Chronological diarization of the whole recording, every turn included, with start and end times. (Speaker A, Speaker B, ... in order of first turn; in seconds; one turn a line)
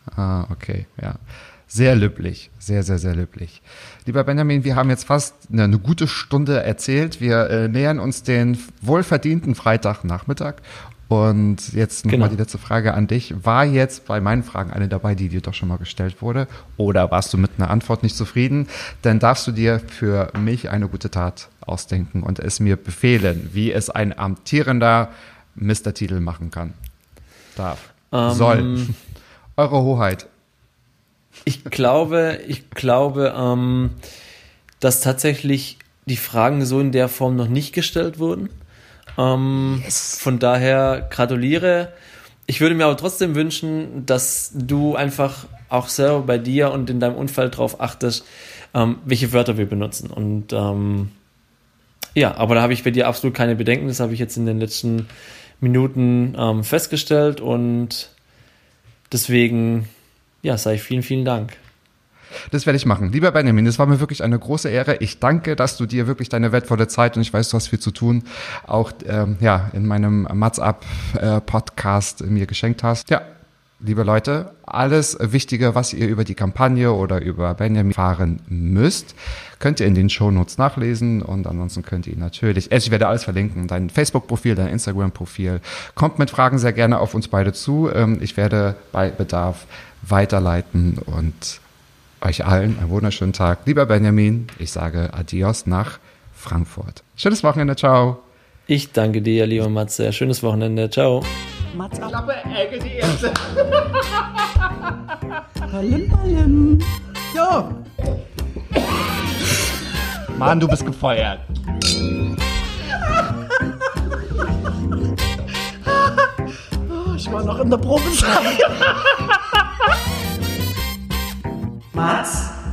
Speaker A: 0.1-26.8
Speaker B: 12.1-12.3
Speaker A: 27.5-28.9
Speaker B: 28.1-28.9
Speaker A: 29.6-30.3
Speaker B: 31.4-34.0
Speaker B: 34.8-38.5
Speaker B: 39.2-41.9
Speaker A: 39.7-40.2
Speaker B: 42.5-51.1
Speaker B: 52.1-55.1
Speaker B: 55.6-58.1
Speaker B: 59.1-59.9
Speaker B: 60.4-61.6
Speaker A: 62.5-73.2
Speaker A: 73.8-91.6
Speaker A: 92.2-98.2
Speaker B: 98.7-101.3
Speaker C: 101.7-102.2
Speaker A: 102.0-104.7
Speaker C: 105.7-107.8
Speaker A: 110.2-111.4
Speaker C: 117.1-118.4
Speaker A: 118.4-119.1
Speaker C: 121.9-122.5